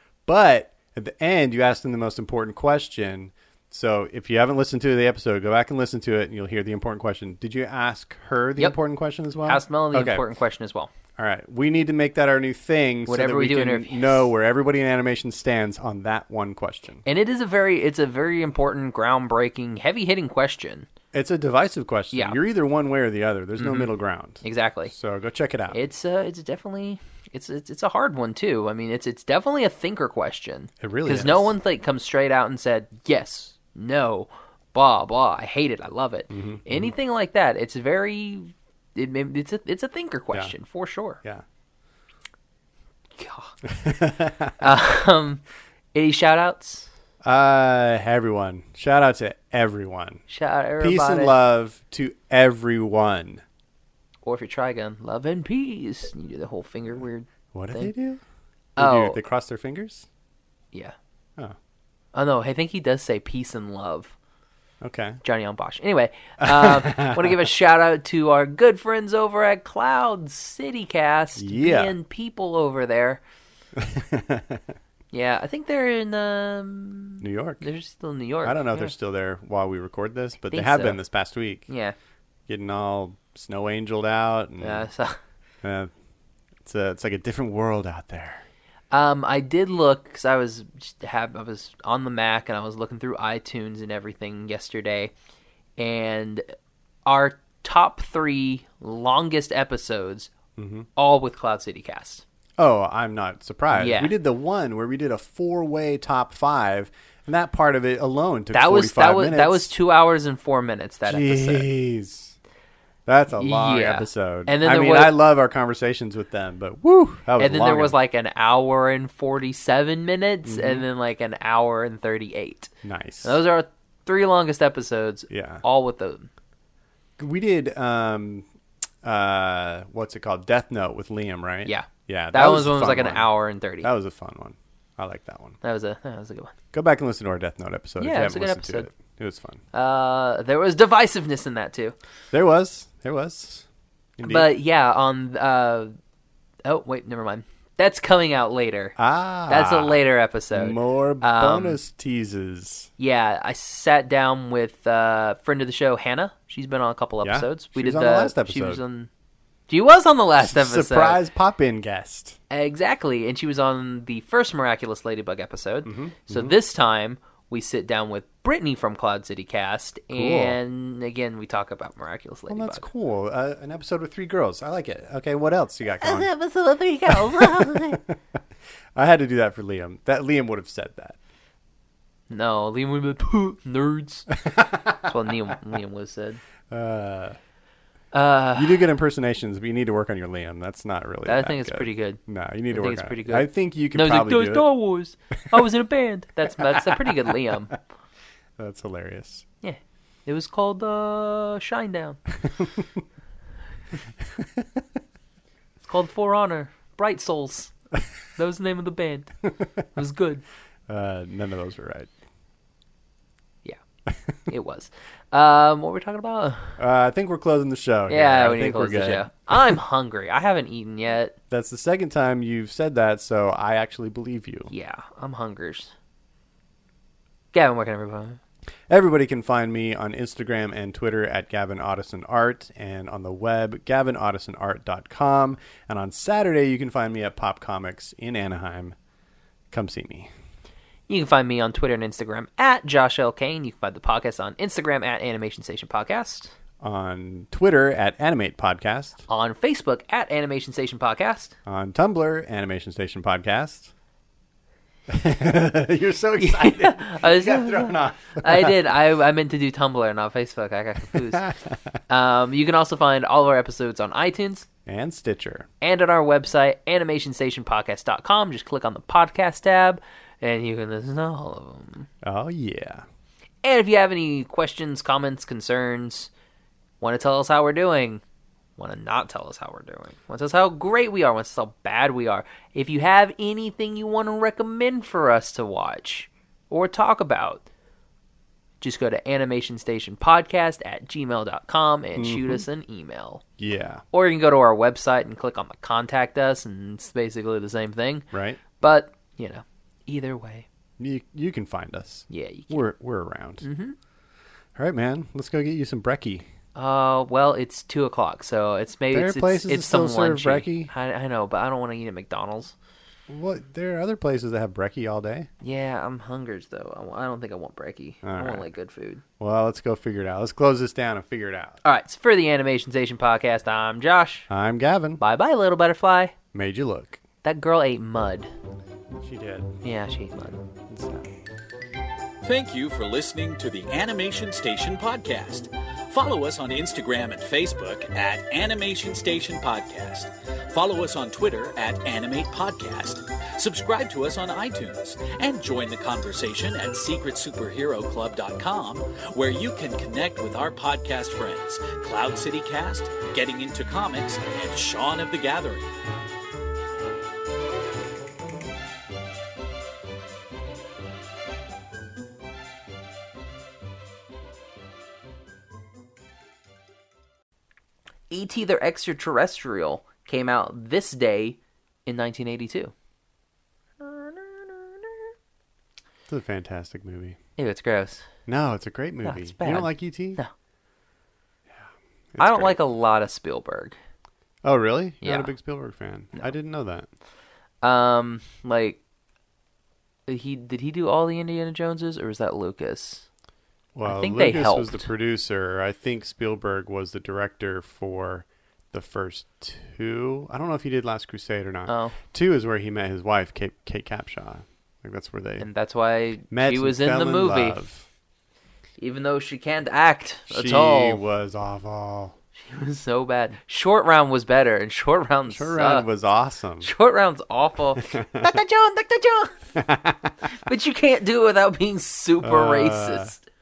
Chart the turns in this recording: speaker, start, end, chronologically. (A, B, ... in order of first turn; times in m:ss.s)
0:00.2-0:10.2 A
0:09.4-0:10.9 B
0:11.2-0:17.0 A
0:13.1-0:14.2 B
0:17.0-0:20.9 B
0:21.1-0:25.8 A
0:23.6-0:24.9 B
0:25.7-0:41.2 B
0:30.8-0:31.5 A
0:36.3-0:36.9 A
0:43.2-0:43.5 B
0:43.7-0:44.6 A
0:44.6-0:45.4 B
0:45.9-0:46.9 B
0:47.2-0:50.2 A
0:50.3-0:51.4 B
0:50.8-0:53.4 A
0:54.2-0:57.9 B
0:57.5-0:58.2 A
0:58.8-0:59.2 B
0:58.8-1:00.1 A
1:02.1-1:04.1 B
1:04.8-1:05.2 A
1:05.2-1:13.2 B
1:06.4-1:07.4 A
1:11.4-1:11.9 A
1:13.8-1:14.7 A
1:15.1-1:18.9 B
1:17.2-1:17.6 A
1:18.4-1:21.6 A
1:20.5-1:21.0 B
1:21.7-1:22.0 B
1:22.5-1:24.9 A
1:24.6-1:25.2 B
1:25.6-1:25.9 A
1:26.6-1:28.4 A
1:28.9-1:35.1 B
1:35.8-1:36.4 B
1:37.0-1:40.3 B
1:40.6-1:40.9 A
1:41.0-1:42.2 B
1:42.6-1:49.7 A
1:43.7-1:44.1 B
1:48.5-1:51.7 B
1:51.0-1:52.4 A
1:53.0-1:58.0 A
1:53.3-1:55.1 B
1:57.4-2:02.7 B
2:00.4-2:00.8 A
2:02.8-2:03.4 A
2:03.2-2:06.3 B
2:05.3-2:05.6 A
2:07.2-2:08.4 A
2:09.0-2:15.6 A
2:11.6-2:13.9 B
2:15.6-2:16.5 B
2:16.7-2:19.6 A
2:18.0-2:18.9 B
2:19.7-2:21.9 B
2:22.3-2:23.6 A
2:24.2-2:24.5 A
2:24.2-2:25.9 B
2:26.6-2:29.0 B
2:29.0-2:30.0 A
2:29.5-2:31.8 B
2:30.5-2:32.9 A
2:33.0-2:39.1 B
2:37.2-2:38.8 A
2:39.7-2:41.2 B
2:40.4-2:42.4 A
2:42.5-2:52.8 B
2:45.8-2:46.5 A
2:50.1-2:50.6 A
2:52.5-2:56.3 A
2:56.0-2:58.0 B
2:57.1-2:58.2 A
2:58.9-3:01.2 A
3:02.3-3:04.4 B
3:04.4-3:05.1 A
3:04.9-3:06.4 B
3:06.7-3:07.4 A
3:08.1-3:08.8 B
3:08.5-3:14.7 A
3:11.2-3:17.7 B
3:16.5-3:17.8 A
3:18.6-3:19.4 A
3:19.6-3:22.2 B
3:22.4-3:23.0 A
3:24.4-3:24.6 A
3:25.8-3:27.7 B
3:28.3-3:29.3 B
3:29.9-3:30.4 B
3:30.9-3:32.1 A
3:34.5-3:36.8 B
3:36.8-3:39.8 A
3:38.1-3:41.3 B
3:41.5-3:44.7 A
3:44.7-3:45.9 B
3:47.5-3:48.4 B
3:48.9-3:58.9 A
3:59.7-4:00.3 A
4:01.1-4:06.5 B
4:06.8-4:09.2 A
4:09.3-4:11.5 B
4:11.6-4:13.9 A
4:15.1-4:18.8 A
4:16.4-4:21.5 B
4:21.1-4:21.8 A
4:22.1-4:24.7 B
4:24.8-4:25.7 A
4:25.8-4:32.1 B
4:32.2-4:33.0 A
4:33.6-4:36.3 B
4:37.0-4:38.2 B
4:38.8-4:47.6 B
4:48.8-4:53.4 B
4:52.1-4:52.6 A
4:53.6-4:54.0 A
4:54.1-5:00.7 B
4:58.3-4:58.6 A
5:01.0-5:03.6 A
5:02.3-5:02.8 B
5:03.6-5:04.0 B
5:04.8-5:06.4 A
5:06.7-5:12.7 B
5:09.1-5:10.9 A
5:13.3-5:15.5 A
5:15.6-5:19.2 B
5:18.2-5:18.6 A
5:19.4-5:21.8 A
5:21.8-5:24.5 B
5:24.5-5:25.2 A
5:25.2-5:26.3 B
5:26.5-5:27.2 A
5:27.4-5:28.5 B
5:29.2-5:29.8 A
5:29.8-5:30.6 B
5:30.8-5:31.3 A
5:32.4-5:55.9 C
6:08.3-6:12.9 B
6:14.0-6:15.3 B
6:16.3-6:17.4 A
6:17.6-6:18.2 B
6:18.4-6:20.4 A
6:19.2-6:20.5 B
6:21.7-6:22.8 A
6:22.4-6:24.0 B
6:24.6-6:27.1 A
6:25.2-6:25.5 B
6:27.8-6:29.0 B
6:30.3-6:33.2 B
6:33.9-6:45.7 A
6:34.0-6:35.1 B
6:41.9-6:42.2 B
6:45.6-6:47.8 B
6:46.5-6:48.1 A
6:49.0-6:51.2 B
6:50.5-6:52.3 A
6:52.6-6:56.0 B
6:55.5-6:56.9 A
6:56.8-6:59.6 B
6:58.1-6:58.4 A
6:59.8-7:00.3 A
7:00.4-7:03.4 B
7:02.4-7:03.3 A